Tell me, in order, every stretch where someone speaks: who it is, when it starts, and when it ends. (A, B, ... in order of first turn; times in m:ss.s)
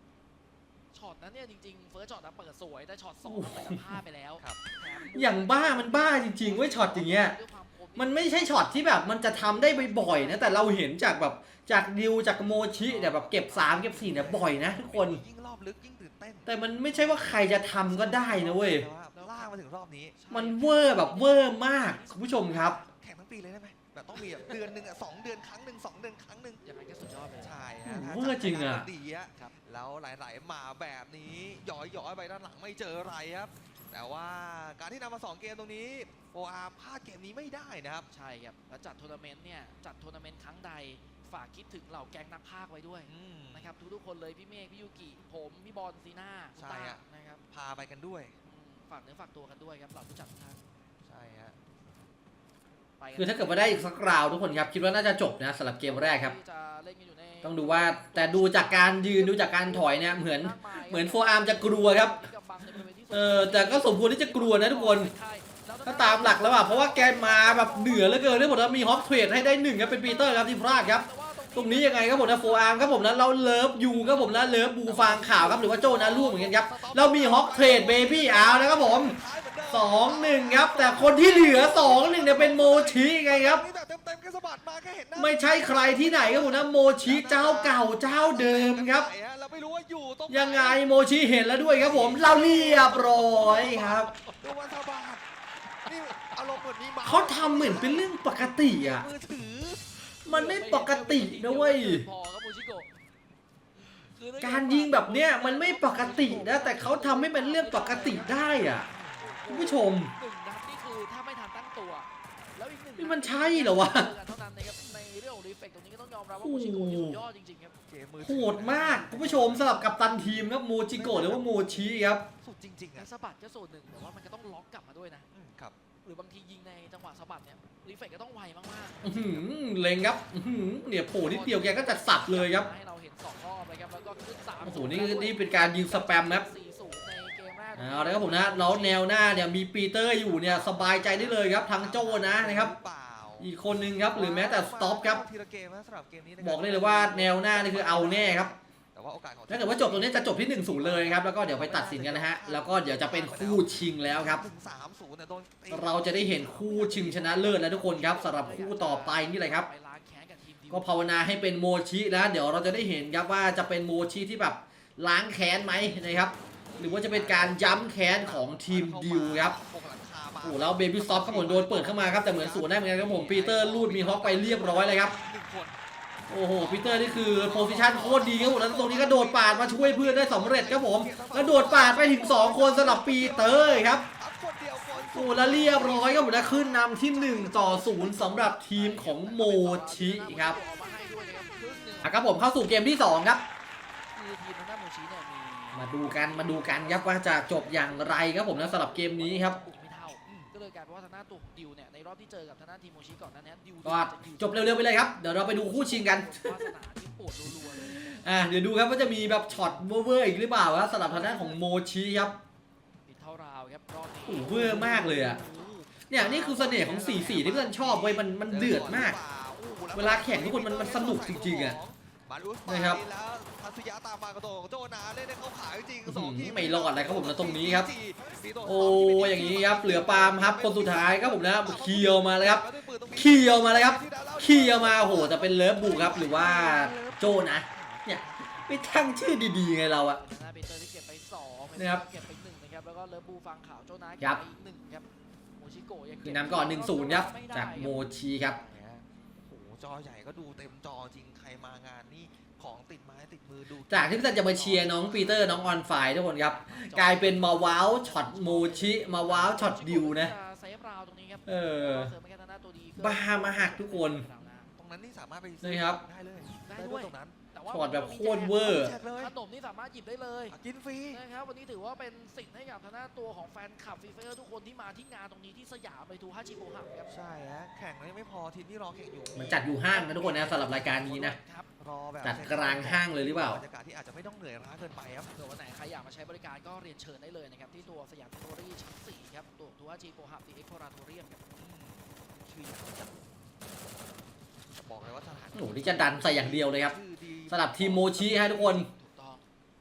0:00.9-0:10.8 A
0:03.3-0:03.8 B
0:05.1-0:07.4 B
0:08.0-0:15.2 B
0:12.8-0:20.3 C
0:16.5-0:18.9 B
0:19.2-0:19.4 A
0:20.3-0:22.8 A
0:20.3-0:22.8 B
0:22.6-0:26.6 C
0:26.6-0:27.6 A
0:27.4-0:38.1 C
0:27.8-0:28.9 B
0:38.1-0:47.4 A
0:43.1-0:43.7 C
0:46.6-0:48.4 C
0:48.4-0:50.6 A
0:51.0-0:51.6 C
0:53.0-0:53.9 A
0:53.2-0:56.3 B
0:55.8-1:13.2 A
0:57.4-1:02.3 B
1:03.1-1:05.1 B
1:05.8-1:19.2 B
1:13.8-1:14.8 A
1:14.8-1:30.8 C
1:19.7-1:23.6 B
1:25.2-1:29.1 B
1:30.3-1:34.1 B
1:31.7-1:35.3 C
1:33.4-1:33.9 A
1:35.8-1:39.9 C
1:37.0-1:39.1 B
1:40.3-1:42.1 B
1:40.3-1:42.9 A
1:44.0-1:57.8 A
1:44.4-1:48.9 B
1:48.9-1:49.4 C
1:49.5-1:50.1 B
1:53.0-1:54.1 B
1:56.4-1:57.2 B
1:57.9-1:59.9 C
1:58.2-2:02.2 B
2:01.0-2:01.7 C
2:02.4-2:03.1 C
2:03.0-2:05.3 A
2:05.3-2:05.8 C
2:06.0-2:09.4 A
2:09.0-2:12.7 B
2:11.2-2:19.1 A
2:14.6-2:16.5 B
2:17.8-2:22.7 B
2:20.3-2:23.5 C
2:23.4-2:25.2 B
2:24.1-2:37.6 C
2:26.4-2:28.5 B
2:29.5-2:34.4 B
2:35.7-2:39.7 B
2:37.3-2:41.2 A
2:40.7-2:49.6 B
2:46.7-2:55.8 C
2:50.4-2:55.2 B
2:56.3-3:04.0 B
2:56.6-3:08.5 C
3:05.1-3:10.6 B
3:08.0-3:12.2 A
3:12.0-3:13.4 B
3:14.2-3:28.4 A
3:15.8-3:19.6 B
3:20.3-3:20.5 C
3:23.8-3:26.7 B
3:27.7-3:32.4 B
3:31.1-3:31.6 A
3:33.1-3:34.7 A
3:34.3-3:35.4 B
3:34.4-4:00.5 C
3:36.1-3:39.2 B
3:39.9-3:41.8 B
3:42.7-3:43.0 B
3:46.1-3:47.9 B
3:48.6-4:00.2 B
4:00.2-4:08.0 A
4:01.8-4:02.0 B
4:06.2-4:08.6 B
4:08.4-4:15.8 C
4:13.9-4:20.3 B
4:16.6-4:24.7 A
4:21.5-4:22.1 B
4:23.0-4:24.2 B
4:24.8-4:27.4 C
4:25.6-4:26.0 B
4:26.6-4:30.6 A
4:27.7-4:28.9 B
4:28.6-4:29.3 C
4:30.5-4:31.2 C
4:31.1-4:37.2 A
4:37.1-4:45.3 C
4:39.4-4:41.4 B
4:40.2-4:41.7 A
4:42.2-4:43.6 B
4:45.4-4:51.5 A
4:51.6-4:53.1 C
4:54.8-4:58.8 C
4:55.6-4:57.0 B
4:57.5-4:58.9 B
4:58.4-4:59.4 A